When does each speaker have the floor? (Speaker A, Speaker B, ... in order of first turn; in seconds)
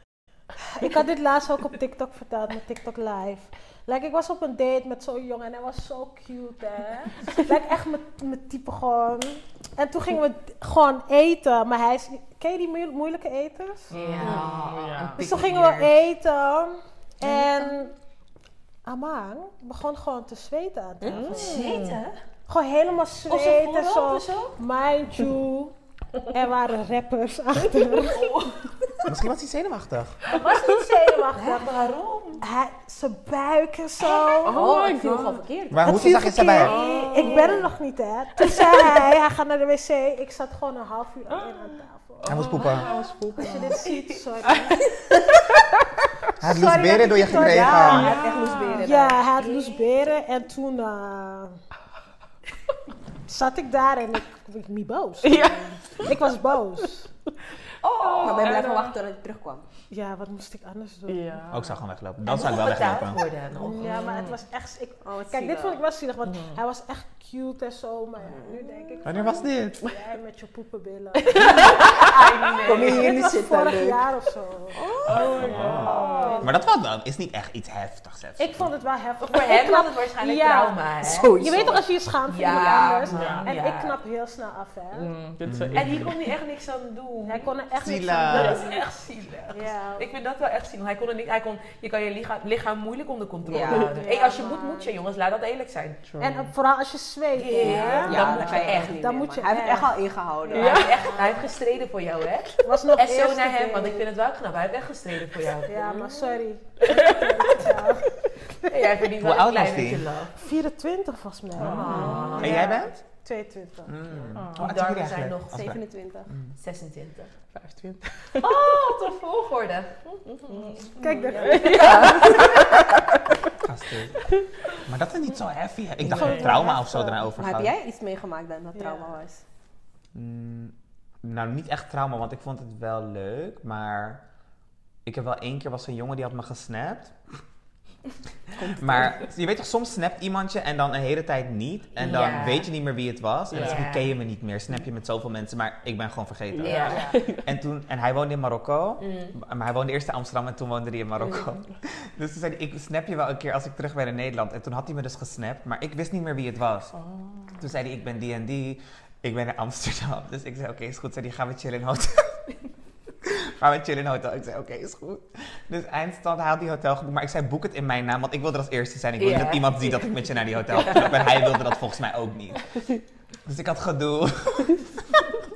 Speaker A: 0.6-13.9, 15.2-17.9, 18.9-21.7, 22.5-25.7, 26.3-28.3, 30.3-31.7, 32.4-34.6, 35.8-42.7, 43.4-44.9, 46.5-48.1, 48.8-51.6, 53.3-57.1, 59.9-61.5, 63.6-72.0, 72.7-74.8, 75.5-76.5, 78.4-85.1, 87.3-88.8, 89.5-90.1, 93.6-94.7, 96.2-101.3, 102.6-104.1, 105.7-108.1, 110.4-114.0, 120.9-122.5, 126.2-127.0
Speaker B: 13.9-15.2, 21.1-22.0, 34.5-35.4, 36.6-37.6, 38.4-39.0, 41.4-43.8, 44.5-44.7, 47.8-48.8, 55.2-56.1, 58.0-59.0, 61.1-61.8, 64.0-64.3, 71.3-71.7, 75.1-76.5, 83.1-83.5, 85.0-86.1, 96.1-96.4, 100.5-101.0, 106.9-107.5, 111.6-112.3, 114.3-114.6, 117.5-118.5, 120.3-122.7, 126.2-126.6, 143.5-143.8, 146.5-147.5
Speaker C: 13.9-16.0, 21.3-22.2, 23.3-24.6, 27.9-28.7, 31.3-32.5, 34.3-34.7, 42.6-42.9, 43.7-44.1, 57.8-58.6, 62.3-63.9, 71.4-73.1, 79.2-84.0, 85.7-87.5, 88.3-96.2, 97.3-99.0, 100.6-106.2, 108.7-110.4, 111.7-112.6, 114.5-115.5, 116.6-117.3, 118.4-120.0, 121.5-122.7, 142.0-142.7, 143.5-144.1, 146.6-147.1, 149.0-149.3, 169.2-170.1, 170.7-171.5
Speaker D: 14.2-14.5, 21.0-21.5, 34.4-36.2, 36.7-37.7, 46.4-49.9, 58.2-59.6, 65.0-65.8, 68.3-69.2, 72.6-74.0, 74.8-76.4, 81.0-81.8, 82.4-83.4, 93.5-94.6, 97.6-100.9, 111.6-112.6, 115.1-116.3, 121.8-122.1, 126.2-129.4, 138.6-139.2, 146.9-147.2
Speaker E: 29.1-30.2, 35.7-36.8, 42.3-42.9, 46.4-48.2, 61.5-63.2, 69.0-69.8, 75.0-78.7, 85.5-86.1, 87.8-88.6, 109.2-110.1, 112.4-113.0, 113.9-115.8, 123.6-124.2, 124.8-127.8, 130.2-134.2, 135.1-137.2, 138.7-156.9, 157.6-162.4, 163.2-172.6, 173.5-175.3